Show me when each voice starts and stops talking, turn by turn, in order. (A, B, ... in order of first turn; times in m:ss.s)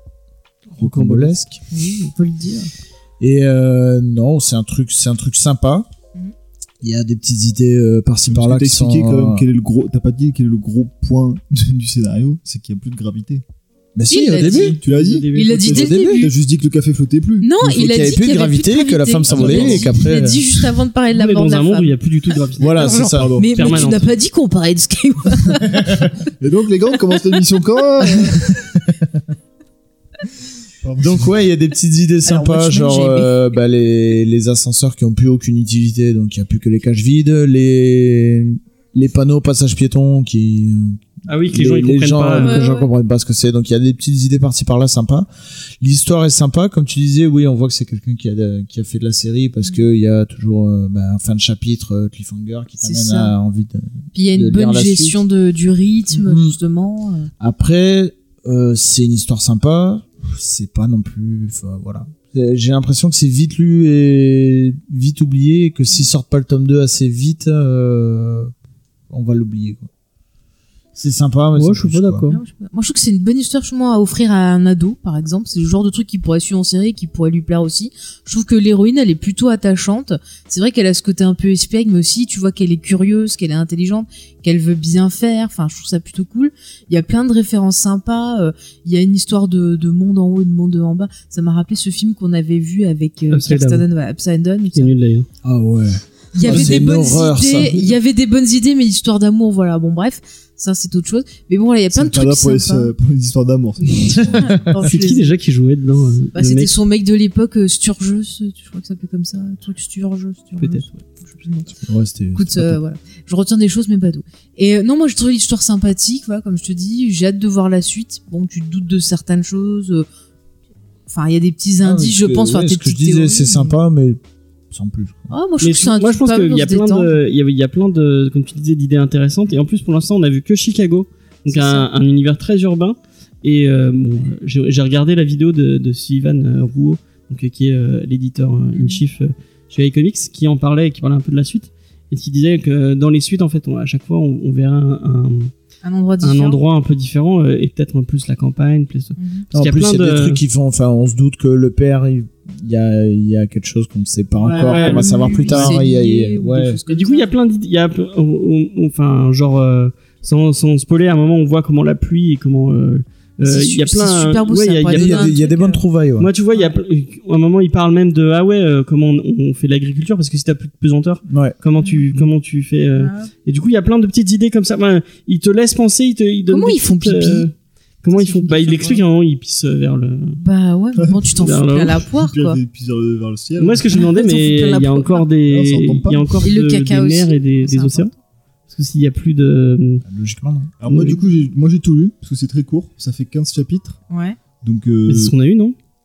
0:00.7-0:01.6 A
0:00.8-0:01.5 B
0:01.7-0:02.7 C
0:03.2-0:05.9 B
0:06.8-0:09.4 B
0:08.2-0:13.4 D
0:13.9-0:14.8 B
0:14.1-0:14.8 C
0:14.4-0:15.8 A
0:14.8-0:17.5 D
0:15.3-0:16.3 C
0:15.7-0:16.3 B
0:17.4-0:21.9 C
0:17.6-0:20.6 B
0:19.3-0:20.0 D
0:21.1-0:24.1 A
0:22.6-0:23.3 B
0:22.7-0:26.0 C
0:22.9-0:23.8 D
0:26.4-0:28.5 D
0:28.4-0:28.7 B
0:30.8-0:31.4 D
0:31.0-0:45.3 B
0:32.2-0:33.3 C
0:41.3-0:42.8 A
0:42.4-0:42.9 C
0:45.8-0:55.2 B
0:52.8-0:53.3 C
0:54.1-0:57.3 C
0:56.1-0:56.6 B
0:57.4-1:08.5 B
1:09.1-1:09.9 B
1:10.9-1:12.3 B
1:11.5-1:12.4 A
1:12.3-1:34.9 C
1:33.3-1:33.8 A
1:34.7-1:35.3 A
1:35.4-1:37.9 B
1:36.3-1:42.9 C
1:36.4-1:36.9 D
1:41.9-1:44.7 D
1:43.8-1:45.3 C
1:44.2-1:44.6 B
1:44.8-1:46.7 A
1:46.3-1:51.7 C
1:50.6-1:51.0 A
1:51.8-1:52.8 B
1:52.3-2:00.1 C
2:01.1-2:03.8 C
2:01.8-2:04.2 B
2:04.7-2:05.3 B
2:05.3-2:07.1 C
2:05.6-2:25.5 A
2:11.5-2:11.9 C
2:18.7-2:19.0 C
2:25.8-2:26.6 C
2:26.2-2:30.4 A
2:29.2-2:29.4 C
2:29.5-2:36.8 B
2:34.4-2:35.8 A
2:34.5-2:37.3 C
2:36.9-2:45.4 A
2:43.4-2:45.8 C
2:44.9-2:46.3 B
2:46.2-2:57.5 A
2:51.3-2:51.6 B
2:53.0-2:53.3 C
2:56.5-2:57.5 C
2:58.0-3:00.4 A
2:58.1-2:59.0 C
3:00.4-3:02.6 C
3:01.0-3:01.4 D
3:01.4-3:02.0 A
3:02.0-3:04.0 D
3:03.6-3:08.1 A
3:03.9-3:05.3 C
3:05.4-3:06.3 D
3:06.4-3:08.1 C
3:08.7-3:10.0 A
3:10.0-3:10.7 B
3:10.8-3:14.0 D
3:10.9-3:11.2 A
3:14.1-3:14.4 C
3:14.6-3:15.3 D
3:15.1-3:15.8 A